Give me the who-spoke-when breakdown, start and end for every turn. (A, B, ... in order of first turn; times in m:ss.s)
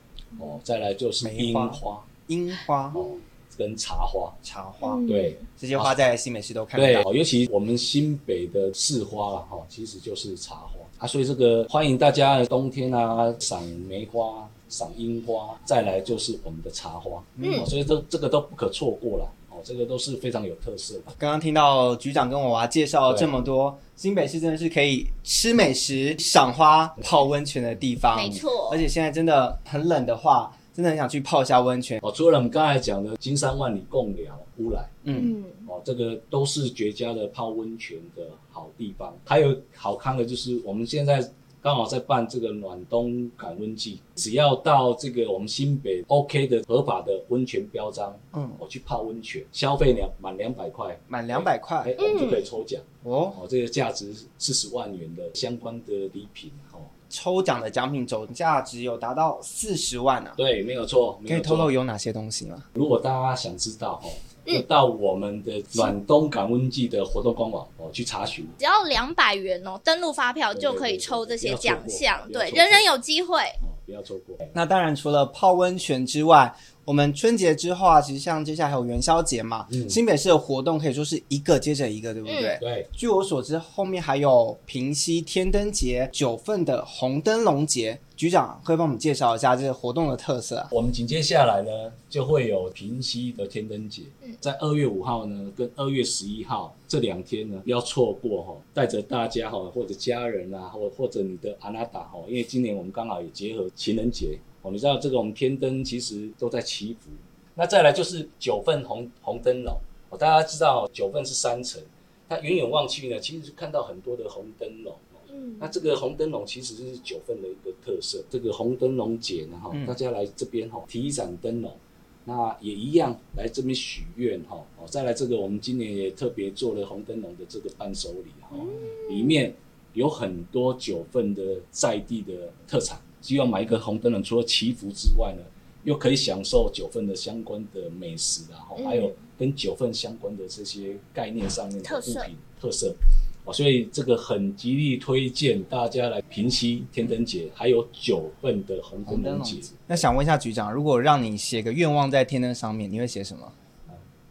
0:00.4-0:02.1 A
0:01.2-0:03.0 B
0:02.9-0:04.4 A
0:04.4-0:05.0 B
0:04.8-0:05.4 C
0:05.1-0:05.9 A
0:05.6-0:07.0 B
0:06.8-0:21.1 A
0:17.4-0:17.7 B
0:17.4-0:17.7 C
0:21.1-0:32.0 B
0:28.1-0:28.8 C
0:32.0-0:34.9 A
0:35.0-0:35.3 B
0:35.1-0:35.7 C
0:35.6-0:56.9 A
0:48.3-0:48.6 B
0:51.1-0:51.9 B
0:52.0-0:52.4 C
0:53.0-0:53.4 B
0:57.1-1:00.4 B
1:00.4-1:01.7 A
1:01.3-1:02.6 B
1:02.7-1:08.5 A
1:08.6-1:13.6 C
1:10.5-1:12.8 A
1:13.6-1:14.5 A
1:14.5-1:30.7 B
1:19.7-1:20.0 A
1:22.2-1:22.6 C
1:22.6-1:22.9 A
1:30.7-2:29.9 A
1:55.3-1:55.7 C
2:08.5-2:09.4 C
2:18.8-2:19.2 C
2:21.8-2:22.3 C
2:29.0-2:33.5 B